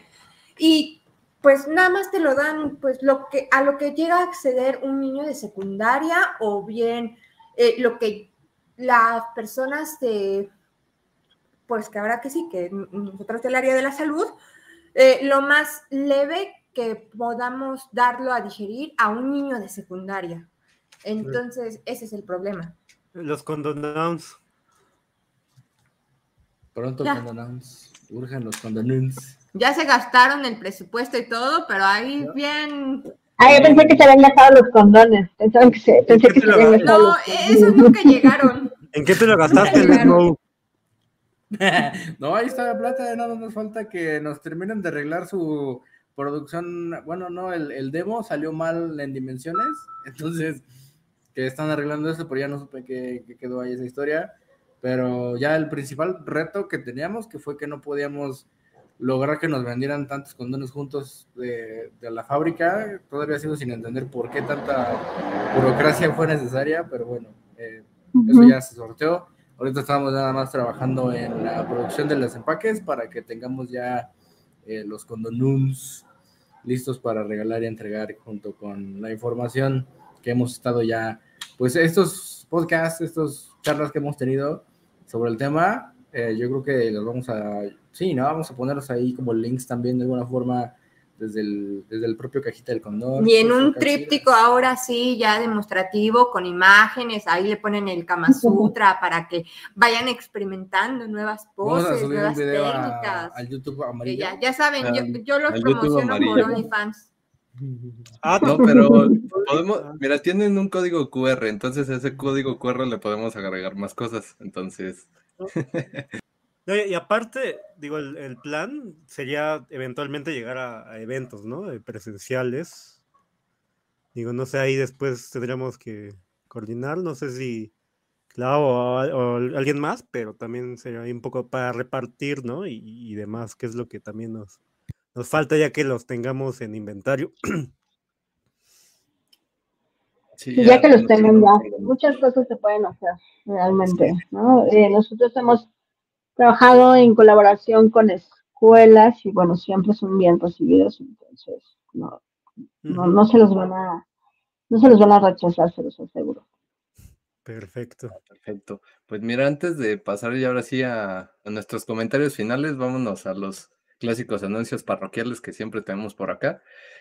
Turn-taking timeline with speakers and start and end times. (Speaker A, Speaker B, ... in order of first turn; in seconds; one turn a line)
Speaker A: 0.6-10.5
Speaker A: 11.7-14.4
Speaker A: 14.9-20.5
Speaker A: 21.0-22.8
Speaker B: 23.1-24.4
Speaker C: 26.7-29.4
Speaker A: 29.5-33.1
Speaker D: 33.4-38.3
Speaker C: 33.5-34.1
Speaker B: 36.1-36.9
Speaker A: 36.7-38.7
Speaker B: 38.9-40.4
Speaker A: 39.5-40.2
Speaker C: 39.6-40.1
Speaker D: 39.8-40.1
Speaker C: 41.5-50.6
Speaker C: 51.3-58.5
Speaker C: 59.0-74.1
Speaker D: 68.2-68.5
Speaker C: 74.6-76.0
Speaker C: 76.6-94.2
Speaker A: 93.2-103.4
Speaker D: 98.3-98.7
Speaker C: 101.6-104.3
Speaker A: 104.0-107.1
Speaker E: 104.8-106.5
Speaker B: 108.1-110.0
Speaker E: 108.4-116.0
Speaker D: 108.6-109.1
Speaker B: 116.7-123.0
Speaker B: 124.1-127.7
Speaker B: 128.3-134.6
Speaker B: 135.1-137.7
Speaker E: 140.4-141.9
Speaker D: 140.6-145.7
Speaker E: 143.9-144.2
Speaker D: 146.4-152.2
Speaker B: 152.8-153.2
Speaker D: 152.9-154.0
Speaker D: 154.7-156.4
Speaker B: 157.4-158.2
Speaker E: 158.2-166.6